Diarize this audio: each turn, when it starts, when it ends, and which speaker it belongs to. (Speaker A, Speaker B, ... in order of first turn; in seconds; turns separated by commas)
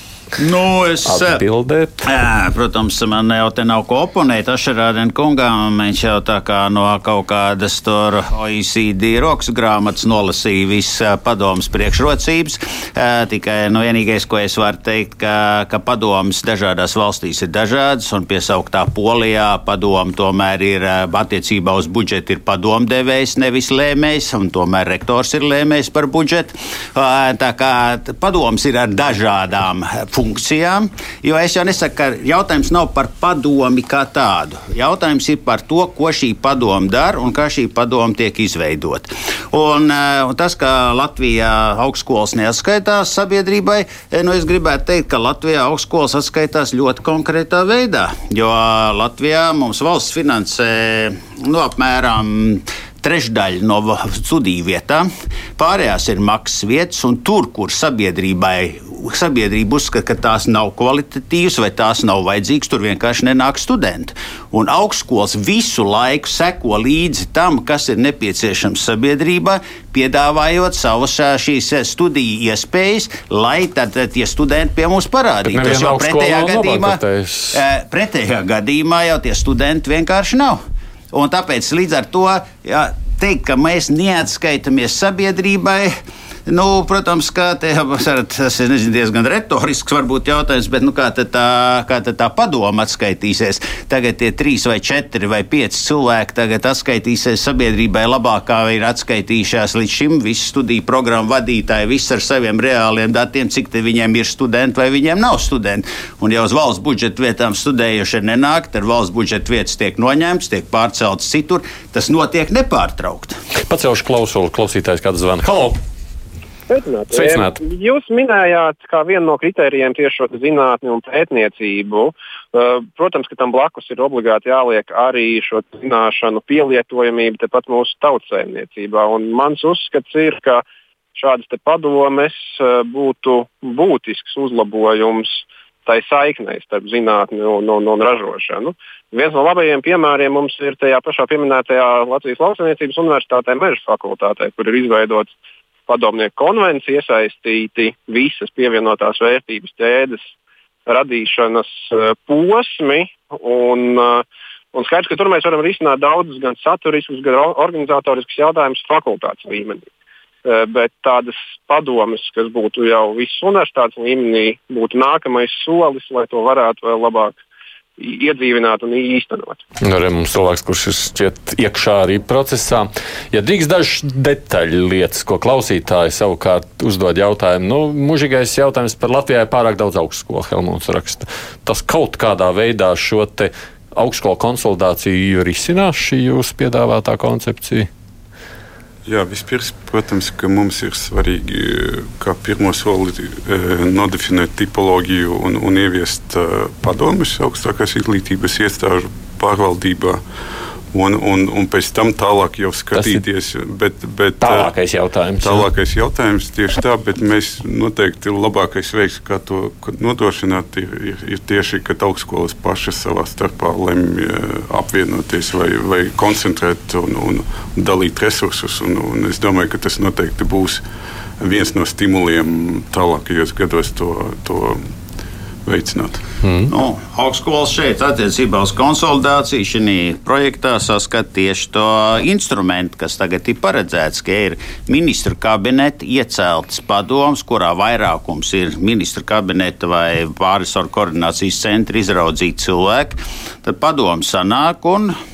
Speaker A: 0.4-1.4, Speaker B: 1.1-2.1, Speaker A: 2.1-77.0, Speaker B: 75.5-77.6, Speaker A: 77.5-80.6, Speaker A: 81.1-86.0, Speaker A: 86.5-113.4, Speaker B: 113.7-115.8, Speaker C: 116.7-130.6, Speaker B: 117.1-117.6, Speaker C: 131.2-145.3, Speaker C: 145.9-150.3, Speaker C: 150.9-159.9, Speaker C: 160.4-167.3, Speaker C: 168.0-169.6, Speaker B: 169.8-187.9, Speaker D: 189.1-200.2, Speaker D: 200.9-204.7, Speaker B: 202.9-203.2, Speaker B: 204.4-205.7, Speaker D: 205.4-220.8, Speaker D: 221.4-224.9, Speaker D: 225.7-226.2, Speaker B: 226.4-226.7, Speaker A: 226.7-245.2